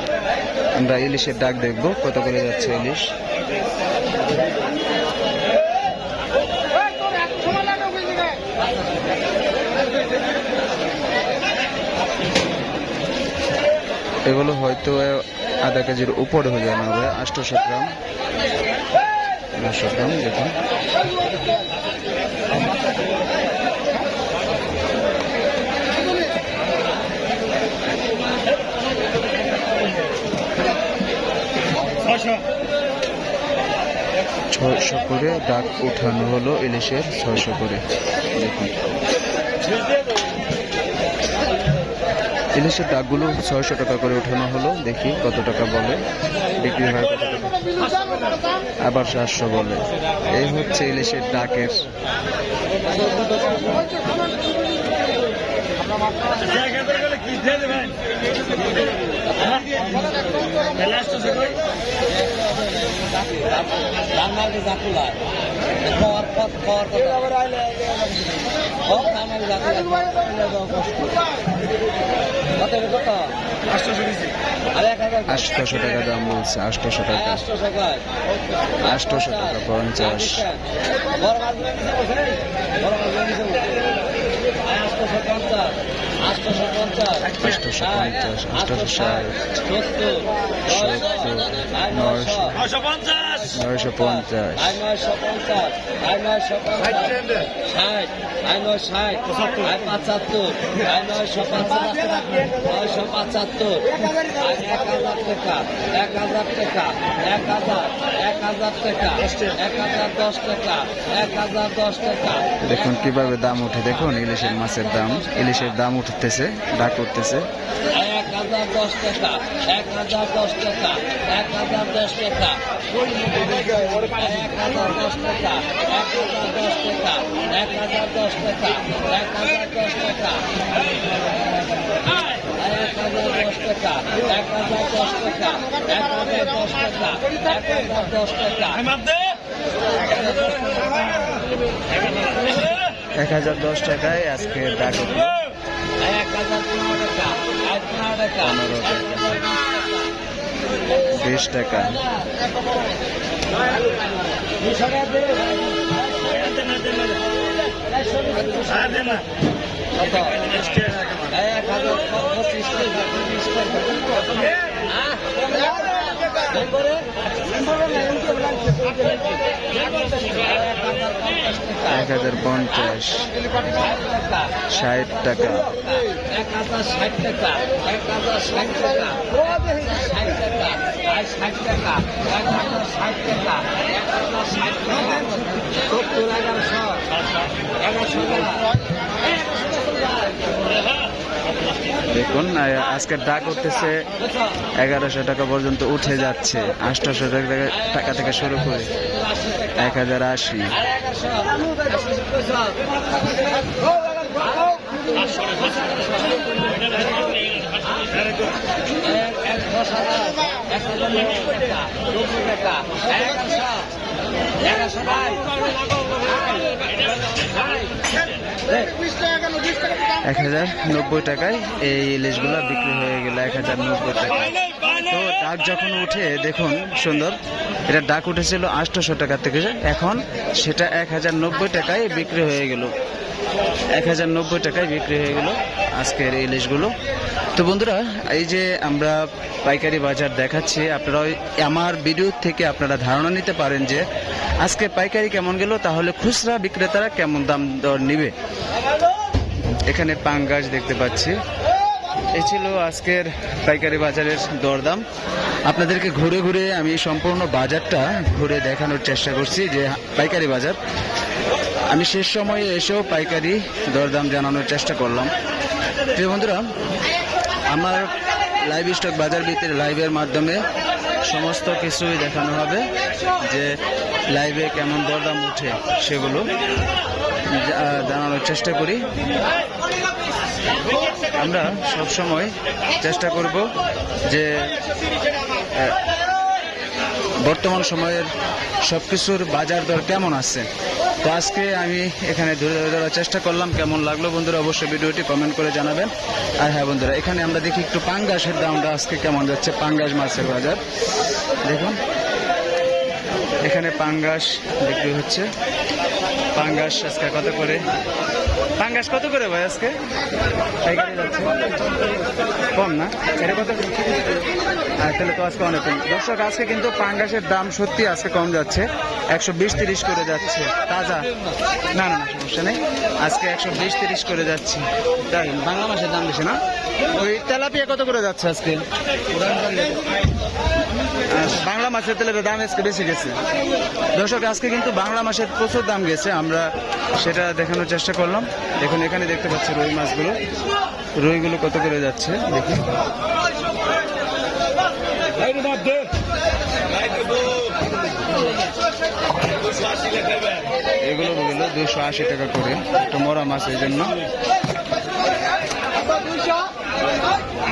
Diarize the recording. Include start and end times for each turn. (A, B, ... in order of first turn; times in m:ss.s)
0:00.8-0:03.1 A
0:14.3-0:18.0 A
0:19.6-0:20.6 A
0:34.5-0:37.8 A
0:38.3-0:38.7 A
0:42.6-0:46.0 A
0:46.6-0:47.6 A
0:48.8-0:51.9 A
1:00.9-1:01.2 B
1:04.2-1:05.0 B
1:06.2-1:07.2 B
1:09.1-1:10.2 B
1:15.3-1:17.5 A
1:18.8-1:20.5 A
1:27.4-1:29.6 A
1:30.7-1:32.6 A
1:33.5-1:34.8 A
1:36.2-1:37.2 B
1:38.5-1:52.2 B
1:52.6-1:57.5 A
1:58.0-2:02.6 B
2:03.8-2:10.4 B
2:12.8-2:18.7 B
2:23.2-2:25.4 A
2:28.3-2:29.4 A
2:31.1-2:32.0 A
2:41.4-2:43.3 B
2:51.8-2:53.3 A
2:54.6-2:55.8 A
2:56.6-3:00.4 B
3:01.3-3:03.4 B
3:04.9-3:05.2 B
3:12.1-3:14.0 A
3:14.8-3:18.9 A
3:19.8-3:20.8 A
3:29.5-3:32.1 B
3:35.0-3:35.4 B
3:40.2-3:52.9 A
3:53.9-3:56.9 A
3:57.6-4:04.0 A
4:04.6-4:08.3 A
4:09.9-4:11.4 A
4:12.3-4:15.0 A
4:15.7-4:20.8 A
4:21.9-4:25.3 A
4:26.1-4:26.7 A
4:27.7-4:28.1 A
4:28.6-4:30.6 A
4:31.2-4:32.9 A
4:33.4-4:33.8 A
4:34.3-4:36.5 A
4:37.5-4:39.1 A
4:41.4-4:43.7 A
4:44.3-4:44.7 A
4:47.4-4:48.3 A
4:48.8-4:50.7 A
4:51.2-5:00.8 A
5:01.7-5:02.0 A
5:03.6-5:05.5 A
5:06.6-5:07.8 A
5:08.8-5:10.0 A
5:10.8-5:11.6 A
5:12.8-5:13.9 A
5:15.0-5:21.3 A
5:21.9-5:26.6 A
5:27.1-5:28.8 A
5:31.3-5:33.4 A
5:34.2-5:36.7 A
5:37.2-5:40.4 A
5:41.2-5:42.9 A
5:51.0-5:54.2 A